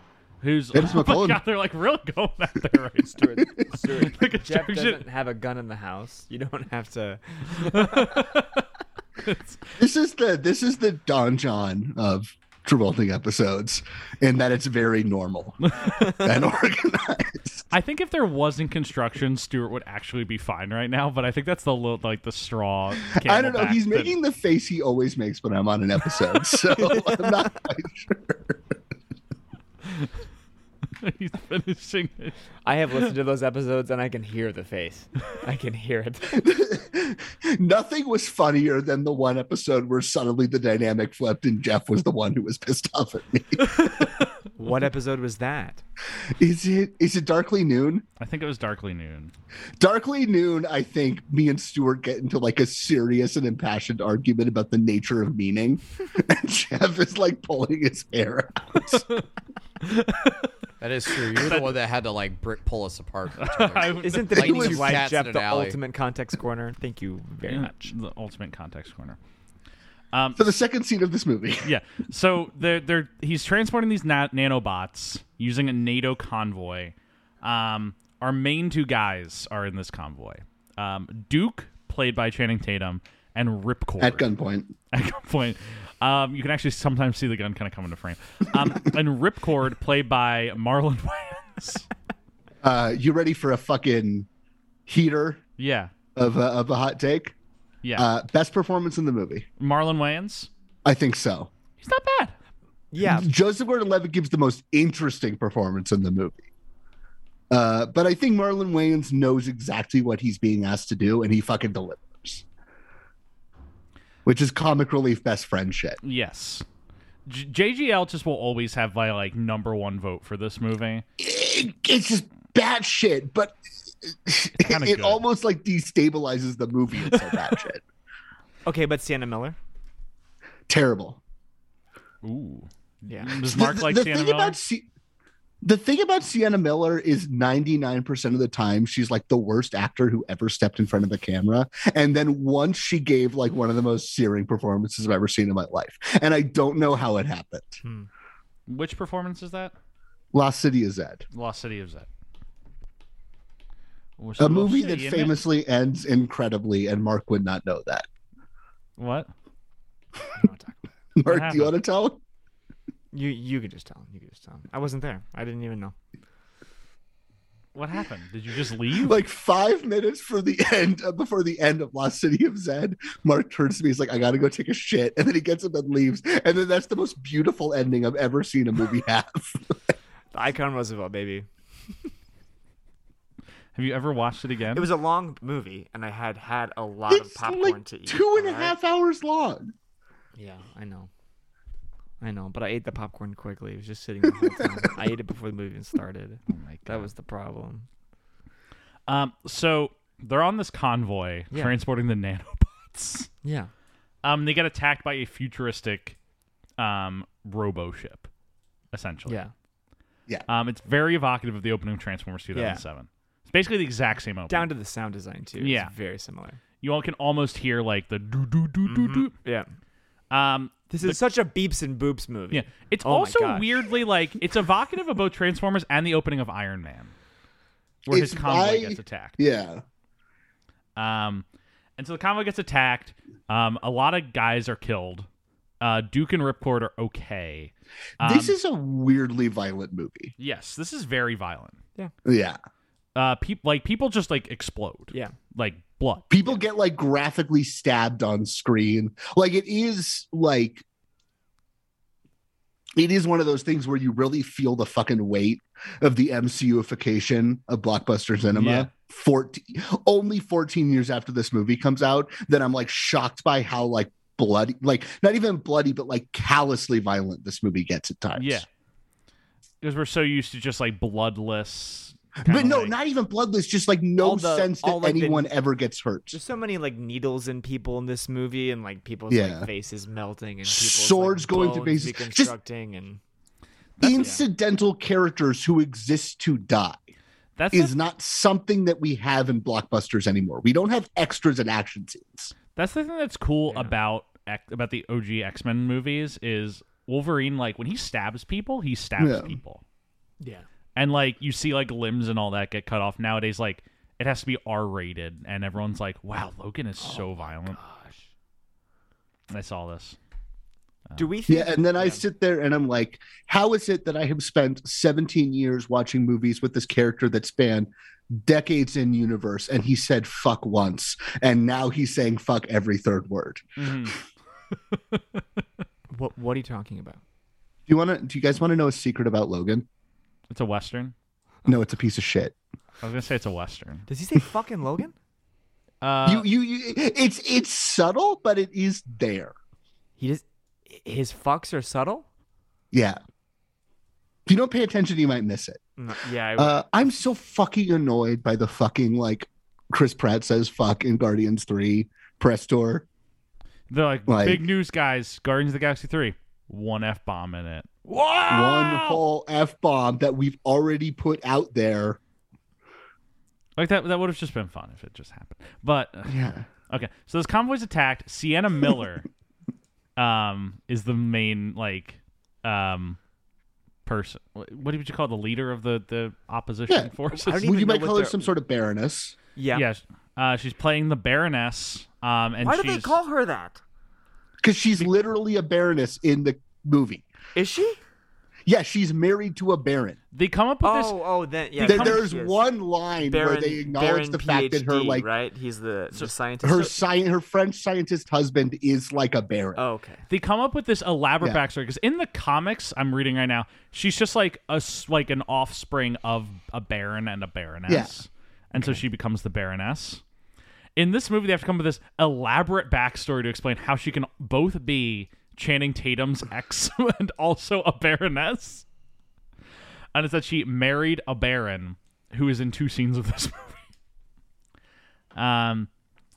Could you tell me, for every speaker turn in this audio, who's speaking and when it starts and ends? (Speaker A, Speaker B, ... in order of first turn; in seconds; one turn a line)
Speaker A: 0.4-3.2
Speaker B: 0.7-1.4
Speaker C: 3.1-8.2
Speaker B: 3.4-3.7
Speaker A: 4.0-5.0
Speaker A: 7.5-8.6
Speaker A: 9.2-9.6
Speaker B: 9.8-17.7
Speaker A: 15.7-16.2
Speaker A: 17.7-24.1
Speaker B: 23.2-28.6
Speaker A: 31.0-32.4
Speaker C: 32.6-36.5
Speaker B: 36.4-44.1
Speaker C: 44.5-45.8
Speaker B: 46.4-48.0
Speaker A: 48.2-49.3
Speaker B: 49.8-59.0
Speaker A: 59.8-60.5
Speaker D: 60.8-65.8
Speaker A: 61.4-61.7
Speaker A: 63.4-64.4
Speaker C: 64.0-67.9
Speaker B: 64.4-64.9
Speaker A: 67.5-69.2
Speaker A: 70.1-70.4
Speaker B: 70.4-71.7
Speaker A: 71.6-84.3
Speaker B: 84.0-84.7
Speaker A: 84.9-91.9
Speaker B: 92.6-94.3
Speaker B: 94.9-95.4
Speaker A: 95.6-95.9
Speaker B: 96.2-97.3
Speaker A: 97.8-98.1
Speaker B: 98.0-99.5
Speaker A: 99.6-100.5
Speaker B: 100.8-101.5
Speaker A: 101.8-102.4
Speaker C: 102.9-103.3
Speaker B: 103.0-106.5
Speaker B: 107.5-112.4
Speaker B: 114.2-116.0
Speaker A: 116.0-116.7
Speaker A: 117.3-121.0
Speaker B: 121.2-127.8
Speaker A: 124.5-125.2
Speaker A: 127.1-127.3
Speaker C: 128.7-129.6
Speaker B: 130.7-131.2
Speaker A: 132.2-134.6
Speaker C: 133.1-133.3
Speaker B: 133.4-134.9
Speaker B: 135.6-147.8
Speaker C: 147.8-148.1
Speaker A: 148.7-149.7
Speaker B: 150.3-151.2
Speaker A: 151.3-152.1
Speaker A: 154.2-155.4
Speaker B: 154.4-158.1
Speaker A: 159.0-159.3
Speaker C: 160.3-160.8
Speaker B: 161.2-162.2
Speaker A: 161.3-161.8
Speaker C: 163.1-165.9
Speaker A: 167.7-169.2
Speaker B: 169.1-179.9
Speaker C: 180.3-181.5
Speaker A: 183.8-184.9
Speaker C: 184.8-188.8
Speaker B: 187.1-189.7
Speaker C: 190.4-191.1
Speaker C: 192.2-197.9
Speaker A: 196.5-197.1
Speaker A: 199.1-203.3
Speaker C: 203.4-203.7
Speaker A: 204.2-206.2
Speaker A: 206.8-208.3
Speaker A: 208.9-209.4
Speaker A: 210.5-214.7
Speaker C: 212.6-212.8
Speaker C: 214.5-216.6
Speaker A: 215.6-215.9
Speaker A: 216.8-219.3
Speaker C: 218.9-219.7
Speaker A: 220.3-221.2
Speaker C: 220.9-223.7
Speaker A: 222.5-227.1
Speaker B: 228.1-229.8
Speaker A: 228.1-229.4
Speaker A: 231.0-231.4
Speaker A: 232.0-235.3
Speaker A: 235.8-238.5
Speaker B: 238.2-240.3
Speaker A: 240.4-241.8
Speaker B: 242.3-242.6
Speaker A: 243.2-246.3
Speaker B: 246.3-250.8
Speaker B: 253.0-268.6
Speaker A: 258.5-258.9
Speaker A: 268.4-268.7
Speaker A: 269.8-272.9
Speaker B: 272.4-276.4
Speaker C: 274.2-275.6
Speaker C: 276.3-283.2
Speaker B: 279.3-279.7
Speaker B: 280.7-282.5
Speaker A: 284.0-284.3
Speaker B: 284.0-287.0
Speaker C: 284.0-284.4
Speaker A: 287.6-287.9
Speaker B: 287.7-292.5
Speaker A: 292.8-299.8
Speaker B: 299.2-299.6
Speaker C: 300.4-300.7
Speaker A: 301.0-307.8
Speaker C: 307.0-308.3
Speaker A: 309.5-310.2
Speaker C: 311.2-312.2
Speaker B: 311.5-323.6
Speaker A: 323.8-324.2
Speaker A: 324.9-325.2
Speaker C: 326.1-327.2
Speaker B: 327.9-329.9
Speaker A: 330.5-331.1
Speaker B: 331.7-332.6
Speaker A: 333.0-334.1
Speaker C: 334.1-335.1
Speaker A: 336.0-336.5
Speaker B: 336.2-339.5
Speaker C: 340.2-342.2
Speaker B: 342.9-343.2
Speaker B: 344.5-345.8
Speaker C: 346.0-346.9
Speaker B: 346.6-353.1
Speaker A: 353.9-359.2
Speaker B: 354.3-354.6
Speaker B: 358.5-362.2
Speaker A: 363.8-366.4
Speaker B: 366.3-366.7
Speaker A: 366.9-369.3
Speaker A: 370.2-373.2
Speaker A: 374.1-377.6
Speaker B: 376.9-379.4
Speaker C: 377.3-378.5
Speaker C: 379.6-379.9
Speaker A: 379.7-383.2
Speaker C: 382.6-383.8
Speaker B: 384.6-387.2
Speaker C: 387.6-388.0
Speaker B: 388.7-390.2
Speaker A: 390.3-391.2
Speaker C: 390.8-397.0
Speaker A: 391.8-392.2
Speaker B: 391.8-395.3
Speaker B: 396.6-399.8
Speaker C: 399.8-400.2
Speaker A: 400.3-410.2
Speaker B: 407.9-408.1
Speaker A: 411.0-418.9
Speaker A: 420.1-423.9
Speaker A: 425.4-425.9